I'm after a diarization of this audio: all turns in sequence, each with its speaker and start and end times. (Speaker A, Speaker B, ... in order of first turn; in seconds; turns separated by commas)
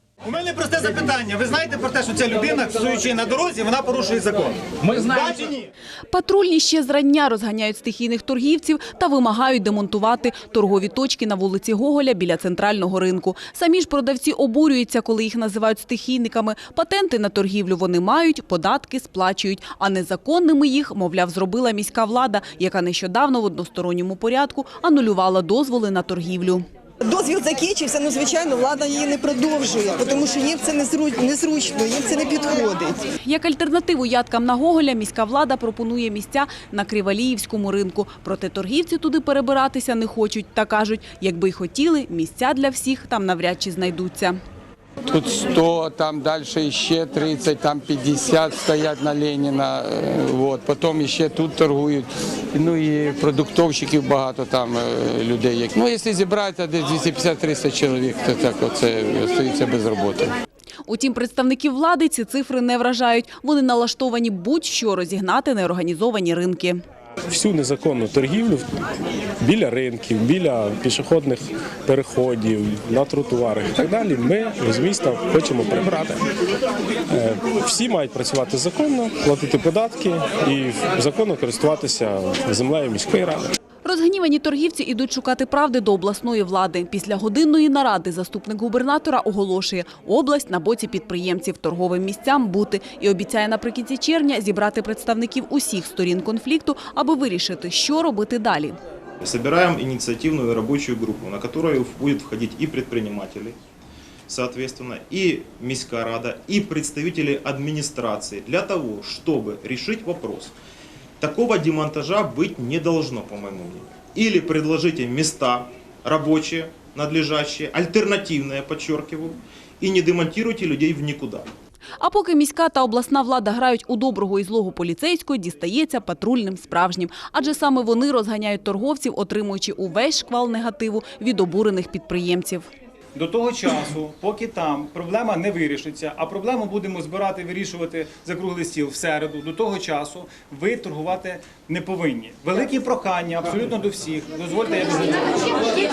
Speaker A: 0.2-5.7, Speaker B: 6.1-26.6, Speaker C: 27.0-33.0, Speaker B: 33.3-44.4, Speaker D: 45.1-60.3, Speaker B: 60.9-66.8, Speaker E: 67.3-68.7, Speaker E: 69.4-76.2, Speaker E: 77.1-83.5, Speaker B: 83.8-98.8, Speaker F: 99.2-103.6, Speaker F: 104.3-110.5, Speaker F: 111.2-121.5, Speaker B: 122.0-132.7, Speaker A: 133.1-145.3